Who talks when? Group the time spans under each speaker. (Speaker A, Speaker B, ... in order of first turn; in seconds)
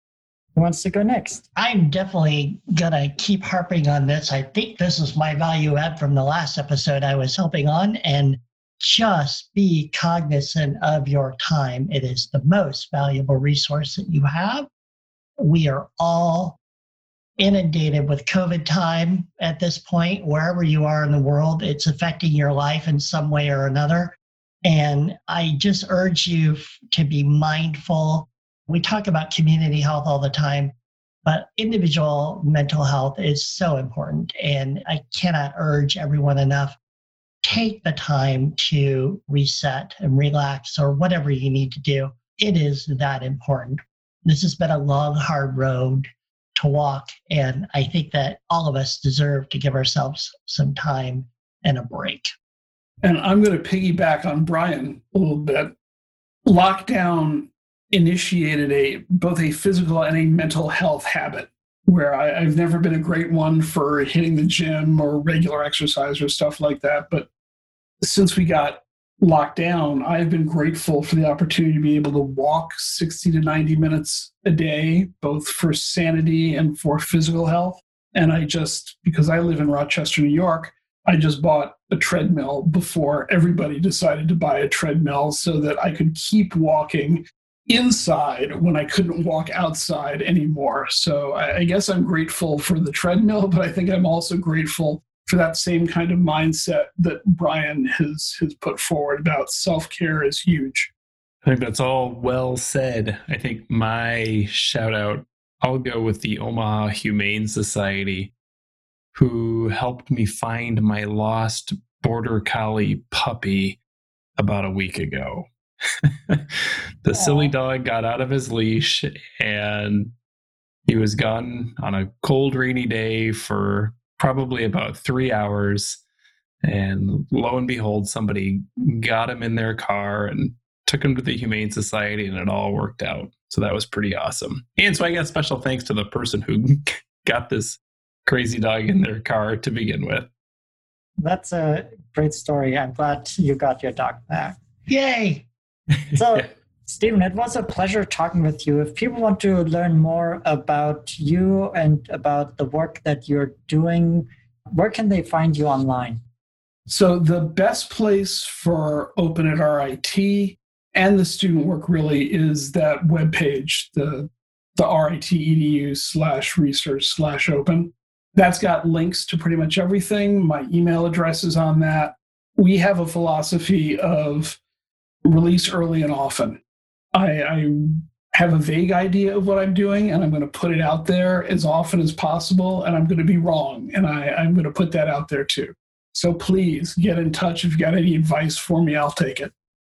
Speaker A: 0.6-1.4, 141.2-144.6, 146.1-156.2
Speaker B: 1.6-14.7, 15.4-16.6, 17.4-30.7, 31.2-36.8, 37.4-52.3, 144.9-145.4
Speaker C: 53.0-55.7, 56.5-67.3, 68.0-100.9, 156.9-174.6, 175.2-176.6, 177.1-189.5
Speaker D: 101.4-108.3, 109.1-113.8, 114.4-115.5, 116.3-120.1, 120.9-126.0, 126.6-140.3